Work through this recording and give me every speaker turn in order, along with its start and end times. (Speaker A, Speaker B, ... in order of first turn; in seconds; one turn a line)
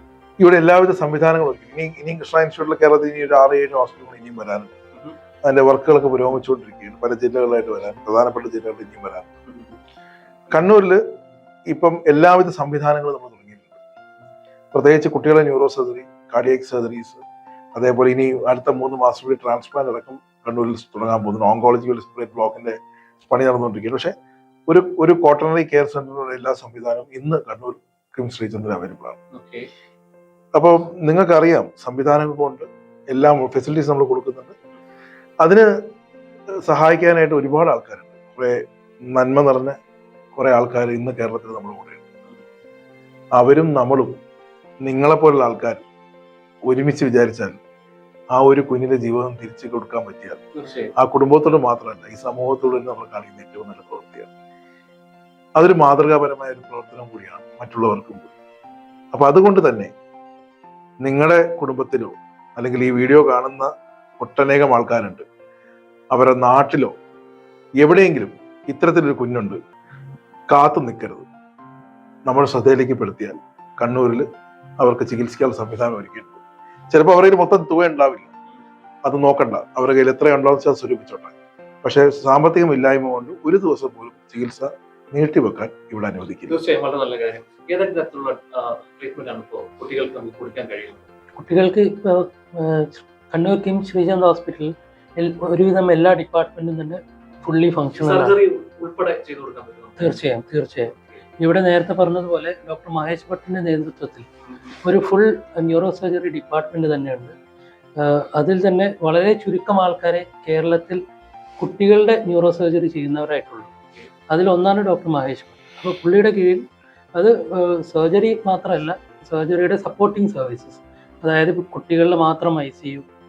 Speaker A: 0.4-4.7
Speaker A: 5.4-9.3
Speaker B: 9.5-9.7
Speaker A: 10.5-11.0
Speaker A: 11.7-13.8
Speaker A: 14.7-17.2
Speaker A: 17.7-24.1
Speaker A: 24.7-29.2
Speaker B: 29.3-29.7
Speaker A: 30.5-34.5
Speaker A: 36.6-39.8
Speaker A: 40.3-42.0
Speaker A: 43.4-44.2
Speaker A: 44.8-45.8
Speaker A: 46.7-47.6
Speaker A: 48.3-50.4
Speaker B: 50.5-50.9
Speaker A: 51.0-54.3
Speaker A: 55.5-58.3
Speaker A: 59.1-59.9
Speaker A: 61.0-65.2
Speaker A: 66.1-66.9
Speaker A: 67.8-69.6
Speaker A: 70.5-71.2
Speaker A: 72.2-74.2
Speaker A: 74.8-78.3
Speaker A: 79.0-86.6
Speaker B: 86.5-91.0
Speaker C: 91.4-98.3
Speaker B: 98.0-100.2
Speaker C: 100.0-104.2
Speaker C: 104.8-107.3
Speaker C: 108.0-111.0
Speaker C: 111.6-113.7
Speaker C: 114.3-123.0